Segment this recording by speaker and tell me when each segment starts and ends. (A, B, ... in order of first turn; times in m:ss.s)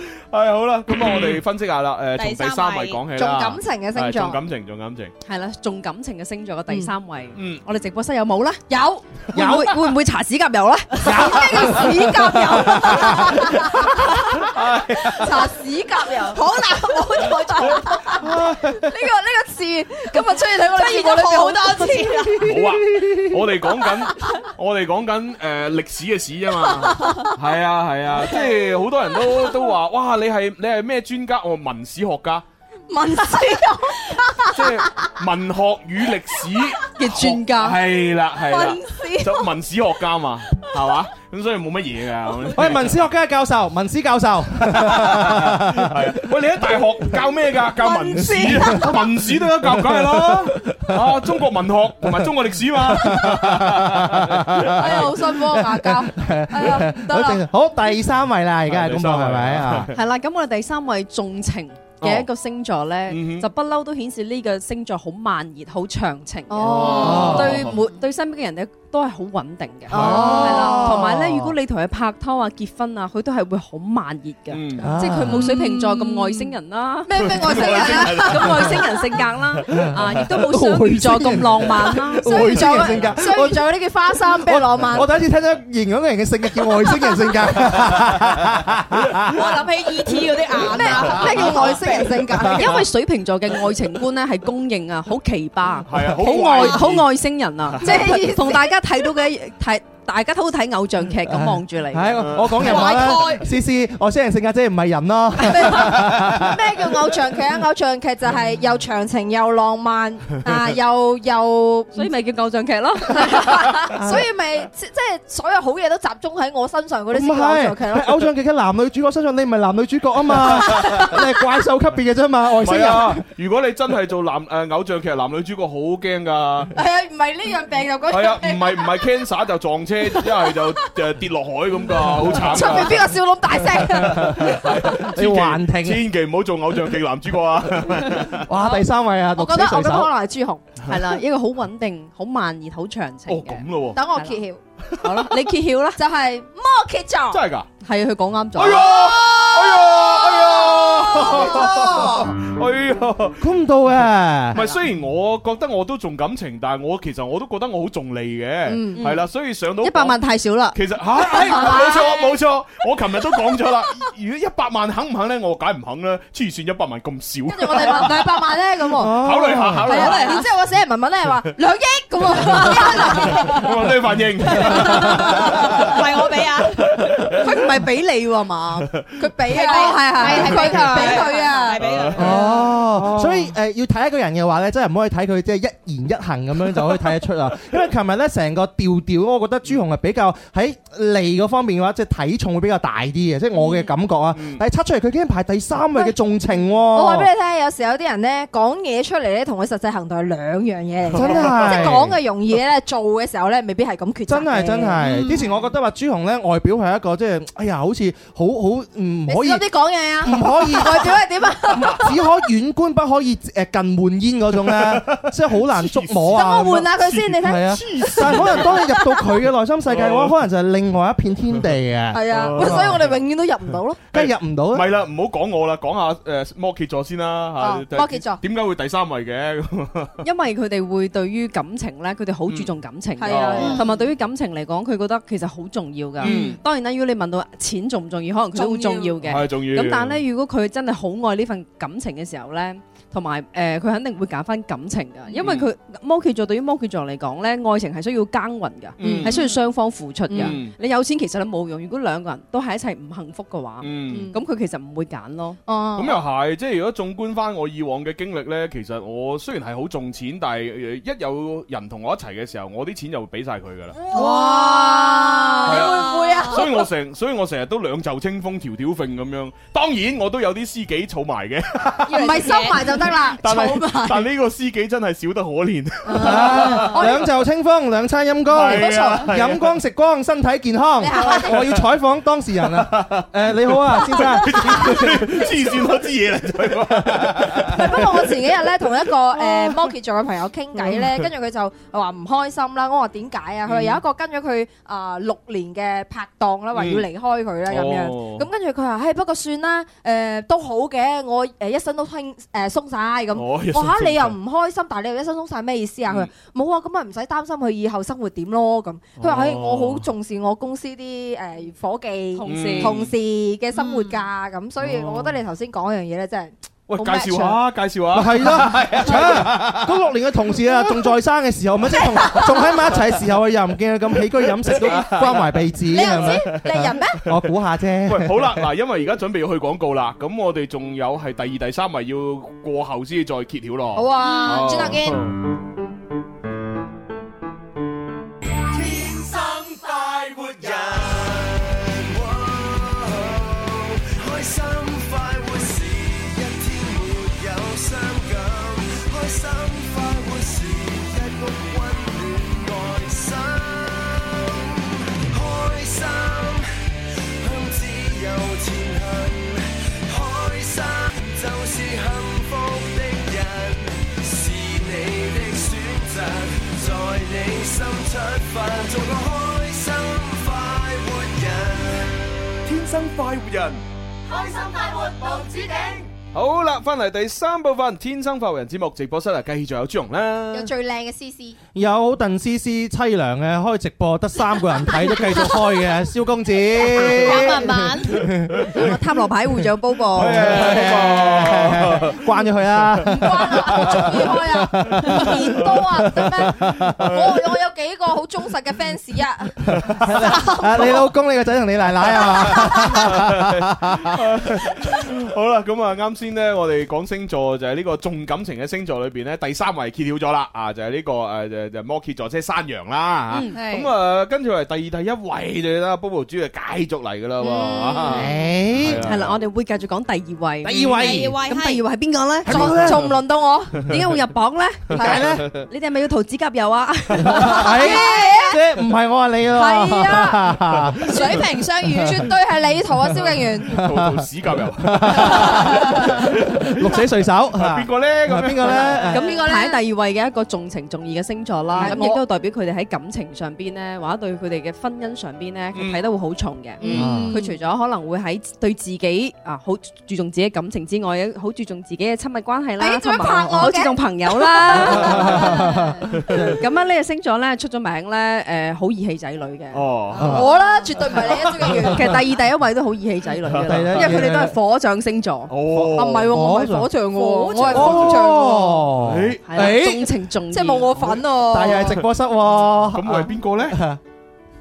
0:00.1-0:05.1 A
0:02.2-0:03.0 B
0:03.1-0:04.4 C
0:05.2-0:08.6 D
0:07.3-0:07.6 A
0:08.7-0:09.0 C
0:09.3-0:09.7 E
0:09.3-0:13.1 D
0:11.0-0:14.4 C
0:11.0-0:13.4 E
0:14.4-0:15.4 A
0:15.0-0:22.4 C
0:16.3-0:17.9 B
0:18.2-0:18.9 E
0:20.7-0:22.5 B
0:21.2-0:22.1 D
0:22.4-0:32.4 A
0:26.9-0:27.3 C
0:32.9-0:34.6 C
0:34.5-0:42.9 A
0:36.9-0:37.8 D
0:38.4-0:39.4 C
0:42.5-0:46.2 E
0:44.7-0:55.1 A
0:47.8-0:48.9 C
0:48.2-0:48.9 E
0:49.6-0:50.9 E
0:52.0-0:59.9 E
0:54.6-0:57.5 C
0:58.7-0:59.9 A
0:59.9-1:22.8 D
1:02.0-1:02.3 A
1:03.1-1:03.5 A
1:06.5-1:07.7 C
1:06.7-1:07.8 A
1:07.0-1:07.6 E
1:09.9-1:11.0 C
1:09.9-1:11.3 E
1:09.9-1:11.5 A
1:14.5-1:14.9 A
1:14.8-1:15.5 E
1:15.4-1:16.5 C
1:17.0-1:18.7 C
1:17.2-1:18.8 A
1:19.4-1:20.3 A
1:19.7-1:23.6 E
1:22.2-1:25.1 C
1:22.8-1:23.2 A
1:24.4-1:29.4 E
1:26.8-1:27.3 C
1:29.4-1:32.2 B
1:30.1-1:42.9 D
1:30.5-1:32.8 C
1:35.9-1:37.1 A
1:37.6-1:38.2 A
1:37.8-1:38.7 C
1:41.3-1:46.5 E
1:42.2-1:42.8 A
1:42.8-1:43.4 B
1:45.5-1:52.1 C
1:51.9-1:53.7 D
1:53.1-1:58.2 C
1:54.0-1:54.2 E
1:57.1-2:03.2 E
2:00.6-2:00.9 A
2:00.7-2:01.1 C
2:02.6-2:06.7 A
2:06.7-2:09.1 C
2:08.1-2:13.1 A
2:10.1-2:10.9 C
2:12.3-2:15.0 C
2:13.7-2:18.4 A
2:14.1-2:16.0 E
2:18.3-2:20.1 E
2:18.6-2:18.8 C
2:19.4-2:20.6 C
2:20.9-2:24.4 D
2:23.3-2:24.0 A
2:23.9-2:24.6 C
2:25.0-2:26.0 D
2:25.0-2:25.3 A
2:26.0-2:27.4 C
2:27.3-2:27.7 A
2:27.8-2:28.9 D
2:28.5-2:33.5 A
2:28.7-2:32.3 C
2:33.4-2:34.6 E
2:34.5-2:40.2 A
2:38.7-2:39.0 C
2:39.0-2:39.2 D
2:39.8-2:40.8 D
2:40.7-2:48.3 A
2:41.4-2:42.2 C
2:41.4-2:42.0 D
2:47.5-2:49.2 C
2:49.0-2:49.8 E
2:49.2-2:50.4 A
2:49.8-2:53.8 C
2:49.9-2:50.4 D
2:52.6-2:55.9 A
2:54.4-2:55.7 C
2:55.9-2:56.8 B
2:56.8-2:57.7 A
2:57.3-2:58.9 D
2:58.8-2:59.1 A
2:59.2-3:01.8 C
2:59.5-3:02.6 B
2:59.6-3:01.3 D
3:00.3-3:01.0 A
3:01.6-3:03.5 A
3:02.2-3:17.3 E
3:06.7-3:07.0 A
3:14.3-3:14.6 A
3:16.9-3:25.4 C
3:21.1-3:22.0 A
3:21.1-3:22.1 E
3:24.3-3:29.6 E
3:25.0-3:25.3 B
3:29.3-3:32.2 C
3:30.2-3:42.9 E
3:34.7-3:38.8 A
3:36.3-3:39.2 C
3:39.9-3:40.4 A
3:42.1-3:44.0 C
3:42.3-3:43.0 A
3:44.1-3:44.9 E
3:44.1-3:50.2 A
3:47.6-3:48.4 C
3:50.2-4:15.6 D
3:52.5-3:52.7 A
3:53.2-3:54.0 C
3:53.3-3:53.8 A
3:53.6-3:53.9 B
3:56.2-3:56.6 A
3:58.5-3:59.2 C
3:59.2-4:00.2 A
4:05.4-4:05.7 A
4:09.0-4:09.4 A
4:09.0-4:09.6 C
4:10.3-4:10.6 C
4:10.3-4:10.7 A
4:13.8-4:14.3 A
4:14.1-4:14.4 C
4:15.6-4:16.2 C
4:16.0-4:24.0 A
4:24.1-4:26.8 C
4:24.1-4:26.6 B
4:25.6-4:37.0 A
4:32.0-4:34.3 C
4:32.1-4:32.9 B
4:36.0-4:37.3 C
4:36.2-4:45.5 E
4:38.5-4:39.7 A
4:38.7-4:39.3 C
4:41.0-4:41.7 C
4:41.2-4:41.8 A
4:42.7-4:48.5 A
4:44.0-4:45.5 C
4:47.1-4:47.6 E
4:47.7-5:17.6 C
4:49.0-4:49.8 A
4:50.9-4:51.3 A
4:53.7-4:54.0 A
4:56.7-4:57.1 A
4:57.7-4:58.4 A
5:03.3-5:04.4 A
5:09.2-5:10.1 A
5:12.4-5:13.0 D
5:12.4-5:13.1 A
5:13.8-5:14.1 B
5:14.8-5:15.4 A
5:16.9-5:20.0 A
5:18.1-5:28.6 E
5:24.7-5:27.4 A
5:25.9-5:27.2 C
5:28.0-5:35.3 A
5:34.0-5:35.2 C
5:38.7-5:56.7 F
5:57.4-6:12.2 F
6:12.6-6:13.8 A
6:14.3-6:15.9 B
6:16.3-6:20.7 A
6:20.5-6:21.6 C
6:21.7-6:28.6 E
6:27.2-6:28.0 B
6:27.2-6:28.0 D
6:28.5-6:28.9 A
6:28.7-6:30.6 D
6:30.1-6:32.2 A
6:30.2-6:36.9 E
6:33.0-6:41.0 C
6:33.6-6:34.1 A
6:36.8-6:37.4 A
6:39.6-6:40.2 A
6:39.6-6:44.2 E
6:42.2-6:59.4 A
6:42.4-6:43.0 C
6:53.3-6:53.6 D
6:53.5-6:53.9 B
6:57.4-6:58.1 C
6:58.1-6:59.0 E
6:59.0-7:02.8 D
7:00.6-7:01.4 E
7:00.8-7:01.8 B
7:02.4-7:03.1 E
7:02.5-7:03.8 C
7:03.8-7:07.8 D
7:05.0-7:05.4 E
7:05.0-7:05.6 A
7:07.3-7:11.0 E
7:07.3-7:08.6 C
7:09.5-7:10.5 C
7:11.1-7:13.8 C
7:11.1-7:12.2 B
7:13.2-7:17.0 A
7:13.7-7:19.3 E
7:15.3-7:16.1 C
7:17.5-7:19.1 A
7:19.1-7:19.8 C
7:19.1-7:35.5 D
7:21.8-7:22.2 C
7:25.7-7:26.0 A
7:26.8-7:27.2 A
7:26.9-7:27.6 C
7:26.9-7:27.4 E
7:32.8-7:35.8 C
7:35.0-7:36.6 E
7:36.1-7:36.5 A
7:36.6-7:39.8 D
7:39.7-7:40.4 A
7:40.2-7:40.4 E
7:40.2-7:42.0 C
7:41.8-7:45.5 D
7:43.4-7:44.3 A
7:43.6-7:44.5 E
7:45.5-7:46.3 A
7:45.7-7:46.9 E
7:45.9-7:48.9 C
7:47.0-7:48.1 D
7:47.7-7:50.1 E
7:47.7-7:48.1 A
7:49.0-7:49.8 A
7:49.5-7:51.1 D
7:50.5-7:52.0 C
7:51.5-7:54.0 E
7:52.8-7:53.8 A